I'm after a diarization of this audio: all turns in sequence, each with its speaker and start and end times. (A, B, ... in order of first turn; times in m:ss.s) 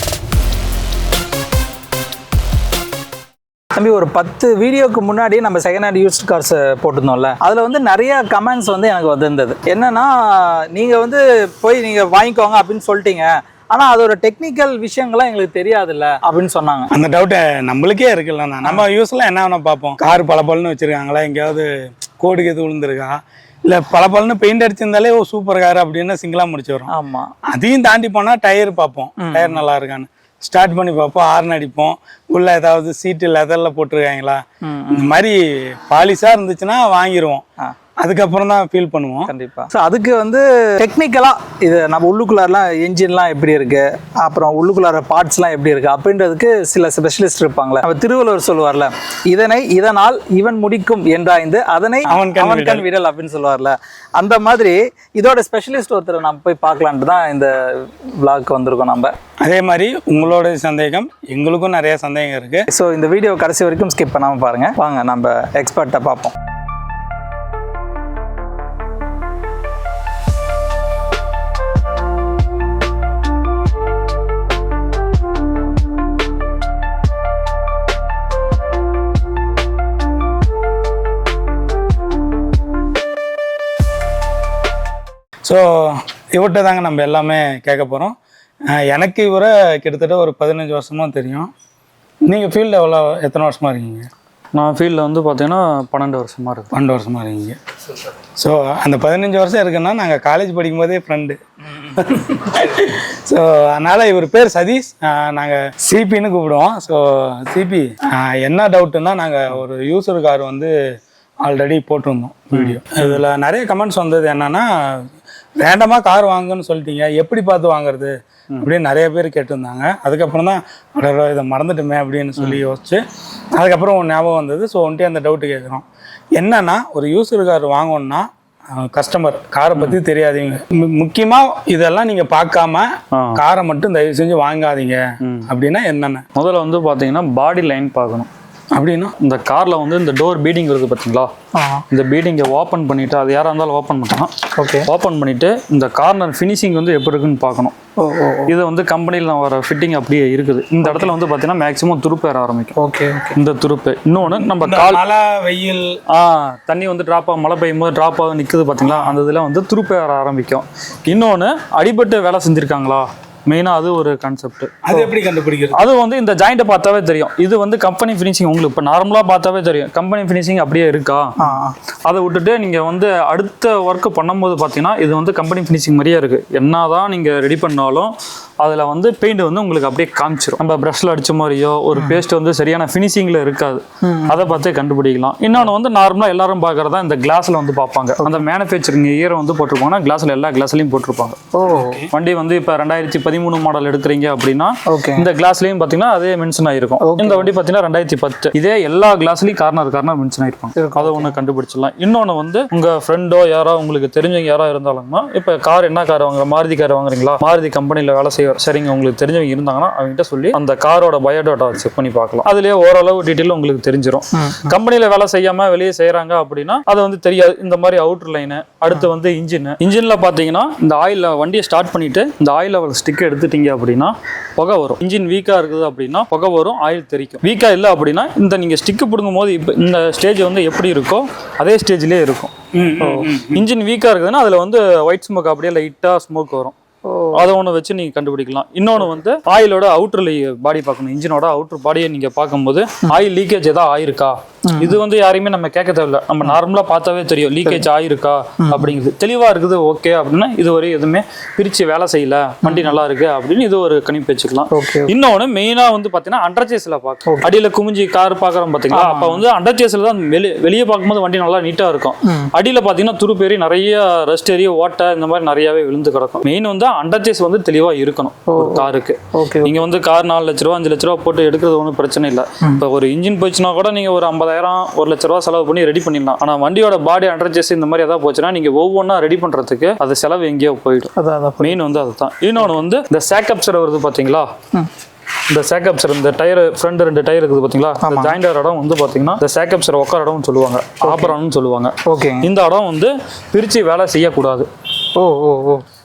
0:03.7-0:16.9 A
0:16.9-0:21.7 B
0:22.2-0:26.9 B
0:26.9-0:27.3 A
0:27.5-0:37.4 B
0:29.2-0:29.6 A
0:34.6-0:35.2 A
0:38.0-0:39.3 B
0:39.3-0:59.1 A
0:52.1-0:52.8 B
0:59.4-1:02.7 B
1:02.7-1:06.3 A
1:25.4-1:28.2 B
1:28.7-1:31.5 B
1:32.3-1:34.1 B
1:34.5-1:36.7 C
1:36.7-1:37.6 B
1:38.4-1:50.7 B
1:51.4-1:55.0 B
1:52.5-1:53.2 C
1:55.6-2:03.0 B
2:03.5-2:05.8 B
2:06.4-2:16.2 B
2:13.1-2:13.4 C
2:15.2-2:15.5 C
2:16.3-2:18.3 C
2:18.7-2:19.1 B
2:19.2-2:21.3 C
2:21.5-2:21.8 A
2:21.9-2:24.3 C
2:24.6-2:24.9 A
2:24.8-2:27.7 C
2:28.0-2:28.5 A
2:28.5-2:32.8 C
2:30.8-2:31.1 A
2:32.8-2:33.4 A
2:33.3-2:35.0 C
2:34.6-2:36.0 B
2:36.1-2:44.8 C
2:38.8-2:39.2 B
2:44.8-2:45.8 B
2:45.7-2:51.4 C
2:51.4-2:51.7 A
2:52.0-3:11.4 C
3:01.9-3:02.2 A
3:04.0-3:04.5 A
3:08.2-3:08.4 A
3:11.5-3:12.1 A
3:11.7-3:12.0 B
3:12.1-3:56.7 C
3:14.9-3:15.3 A
3:17.0-3:17.5 A
3:20.7-3:21.4 A
3:34.3-3:34.8 A
3:52.7-3:53.6 B
3:57.0-3:57.5 A
3:57.3-4:44.5 C
4:04.7-4:05.0 A
4:08.6-4:08.9 A
4:12.6-4:13.0 A
4:14.7-4:15.1 A
4:17.3-4:17.5 A
4:18.9-4:19.4 A
4:22.2-4:22.5 A
4:28.5-4:29.8 A
4:41.2-4:41.8 A
4:45.5-4:54.7 C
4:48.0-4:48.4 A
4:51.0-4:51.4 A
4:52.0-4:52.5 A
4:55.2-4:55.8 A